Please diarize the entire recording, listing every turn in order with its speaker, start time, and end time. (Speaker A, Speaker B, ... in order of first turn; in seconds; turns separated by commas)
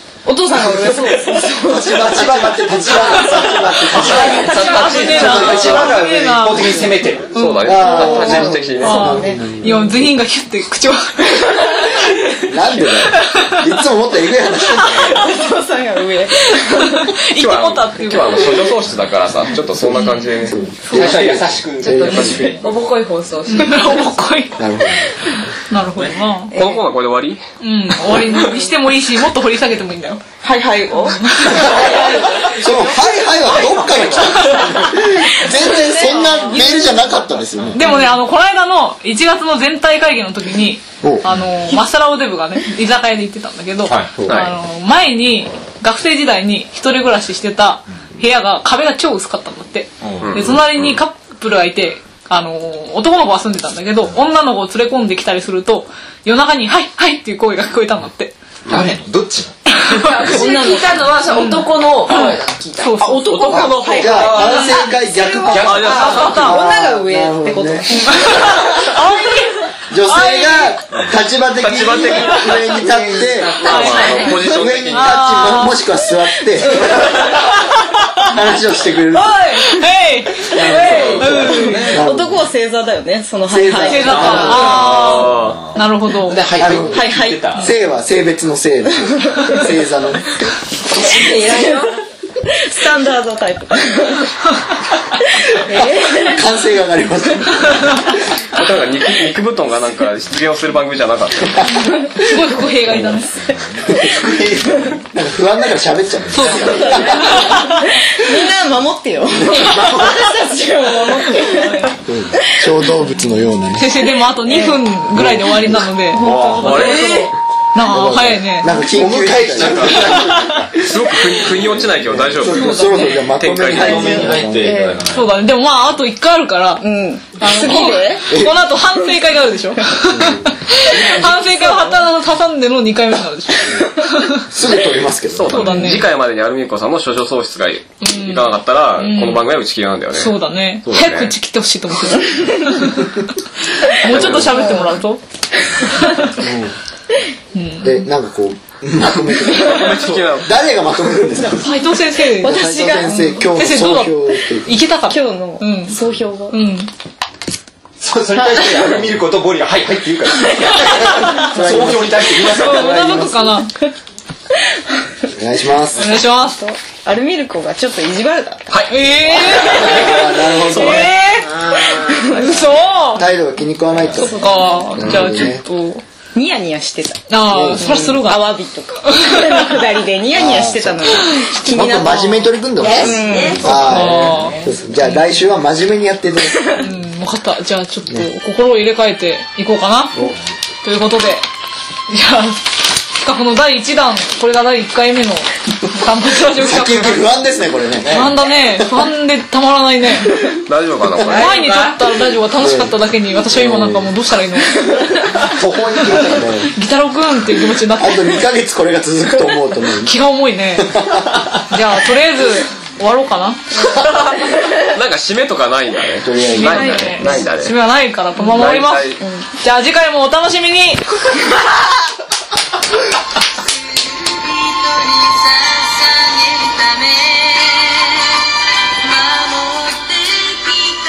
Speaker A: 0.2-2.1, Speaker B: 0.8-7.6, Speaker C: 0.9-6.0, Speaker A: 3.8-5.8, Speaker D: 3.9-5.9, Speaker E: 4.0-12.0, Speaker F: 4.3-5.0, Speaker D: 7.3-9.2, Speaker C: 7.6-10.1, Speaker A: 7.7-9.5, Speaker A: 11.4-13.1, Speaker C: 12.5-15.3, Speaker E: 13.1-13.6, Speaker E: 14.7-15.1, Speaker A: 14.8-17.1, Speaker E: 16.6-18.7, Speaker D: 17.4-21.3, Speaker C: 19.8-22.6, Speaker E: 19.9-20.2, Speaker E: 20.8-21.2, Speaker B: 20.9-22.6, Speaker A: 22.0-22.6, Speaker D: 22.2-22.5, Speaker F: 22.5-24.0, Speaker E: 23.5-26.5, Speaker C: 24.6-25.3, Speaker A: 26.5-26.8, Speaker D: 26.5-27.4, Speaker E: 27.6-30.2, Speaker A: 30.4-32.7, Speaker E: 31.1-58.4, Speaker C: 31.5-37.8, Speaker B: 33.5-35.0, Speaker A: 35.5-37.0, Speaker B: 37.5-37.8, Speaker A: 37.8-38.1, Speaker C: 41.0-41.3, Speaker B: 43.9-44.2, Speaker D: 44.3-44.5, Speaker B: 50.0-50.6, Speaker D: 50.2-50.7, Speaker B: 58.7-59.8, Speaker E: 59.8-60.1, Speaker F: 59.9-67.8, Speaker A: 60.2-61.0, Speaker E: 61.3-63.7, Speaker A: 63.2-66.7, Speaker D: 63.2-64.6, Speaker C: 63.5-68.2, Speaker D: 65.5-66.4, Speaker E: 65.8-66.7, Speaker A: 67.7-69.0, Speaker E: 68.1-70.8, Speaker C: 69.9-77.4, Speaker D: 71.6-72.9, Speaker E: 72.2-72.8, Speaker F: 73.2-74.5, Speaker D: 73.6-75.6, Speaker E: 73.7-76.0, Speaker A: 73.7-74.4, Speaker A: 76.8-77.1, Speaker E: 77.6-78.3, Speaker C: 78.2-79.4, Speaker F: 79.1-79.7, Speaker E: 79.5-81.8, Speaker F: 80.5-81.7, Speaker C: 80.5-82.4, Speaker D: 80.8-81.5, Speaker A: 81.2-84.7, Speaker B: 81.2-82.1, Speaker C: 83.5-84.8, Speaker E: 83.8-86.4, Speaker B: 83.9-87.7, Speaker D: 84.6-85.6, Speaker C: 86.6-90.5, Speaker A: 86.9-87.5, Speaker A: 89.0-89.7, Speaker F: 90.9-92.0, Speaker A: 90.9-91.9, Speaker A: 92.5-94.7, Speaker A: 95.3-96.5, Speaker C: 95.8-98.0, Speaker E: 97.7-98.1, Speaker D: 98.5-101.9, Speaker E: 102.0-103.4, Speaker C: 102.9-103.2, Speaker B: 103.5-105.0, Speaker C: 103.9-104.5, Speaker A: 103.9-104.2, Speaker C: 105.0-107.6, Speaker E: 106.3-108.0, Speaker A: 106.6-111.9, Speaker B: 109.5-110.3, Speaker E: 109.5-109.9, Speaker C: 112.0-114.0, Speaker A: 112.5-112.7, Speaker E: 113.8-118.8, Speaker A: 114.4-114.8, Speaker C: 115.1-116.3, Speaker B: 116.2-117.2, Speaker A: 116.2-117.1, Speaker D: 116.4-117.3, Speaker F: 116.8-117.2, Speaker C: 117.9-120.7, Speaker B: 118.8-120.8, Speaker D: 119.6-120.1, Speaker E: 119.9-120.6, Speaker D: 120.8-122.8, Speaker C: 122.1-125.0, Speaker B: 122.4-122.9, Speaker E: 122.5-123.2, Speaker D: 123.4-124.1, Speaker B: 123.7-125.4, Speaker A: 123.8-125.0, Speaker E: 125.1-134.4, Speaker A: 126.8-128.5, Speaker C: 128.3-128.6, Speaker C: 130.0-130.5, Speaker A: 130.9-132.1, Speaker C: 134.5-135.9, Speaker D: 135.3-141.3, Speaker E: 135.5-136.1, Speaker E: 138.0-139.5, Speaker E: 140.1-143.2, Speaker E: 143.8-145.2, Speaker D: 144.1-144.7, Speaker A: 144.2-144.9, Speaker A: 145.8-146.3, Speaker E: 145.9-146.3, Speaker C: 146.4-146.8, Speaker E: 147.5-148.1, Speaker C: 147.8-151.7, Speaker D: 149.4-150.5, Speaker B: 149.8-150.2, Speaker A: 151.4-151.7, Speaker E: 151.5-156.0, Speaker A: 152.3-153.2, Speaker C: 152.4-154.8, Speaker A: 155.1-156.6, Speaker E: 156.5-156.9, Speaker B: 158.0-162.9, Speaker C: 158.3-159.2, Speaker A: 160.9-161.5, Speaker E: 161.0-161.5, Speaker C: 161.3-163.6, Speaker E: 162.4-163.7, Speaker A: 164.5-164.8, Speaker C: 165.3-166.2, Speaker E: 165.9-166.6, Speaker A: 166.1-170.4, Speaker E: 168.9-171.5, Speaker C: 169.5-171.2, Speaker A: 171.4-172.8, Speaker E: 172.2-173.3, Speaker D: 172.3-172.7, Speaker C: 173.2-175.6, Speaker A: 174.1-175.2, Speaker E: 174.1-176.0, Speaker A: 176.3-184.0, Speaker E: 177.3-179.8, Speaker C: 177.5-178.1, Speaker C: 180.3-186.8, Speaker E: 181.5-182.4, Speaker F: 182.8-184.7, Speaker E: 183.6-185.5, Speaker E: 186.8-190.3, Speaker E: 190.8-191.5, Speaker E: 192.1-197.3, Speaker C: 196.5-198.8, Speaker E: 198.1-200.4, Speaker D: 200.7-201.6, Speaker F: 201.2-202.0, Speaker E: 201.3-205.1, Speaker C: 202.6-203.0, Speaker C: 203.5-204.1, Speaker B: 205.3-206.6, Speaker C: 206.1-206.7, Speaker E: 206.6-208.4, Speaker C: 208.0-210.2, Speaker E: 210.0-211.0, Speaker C: 210.8-211.5, Speaker E: 211.7-213.8, Speaker D: 214.8-217.8, Speaker C: 216.2-217.2, Speaker E: 216.5-221.1, Speaker D: 218.4-219.2, Speaker A: 219.2-219.5, Speaker F: 225.5-227.2, Speaker F: 229.1-230.1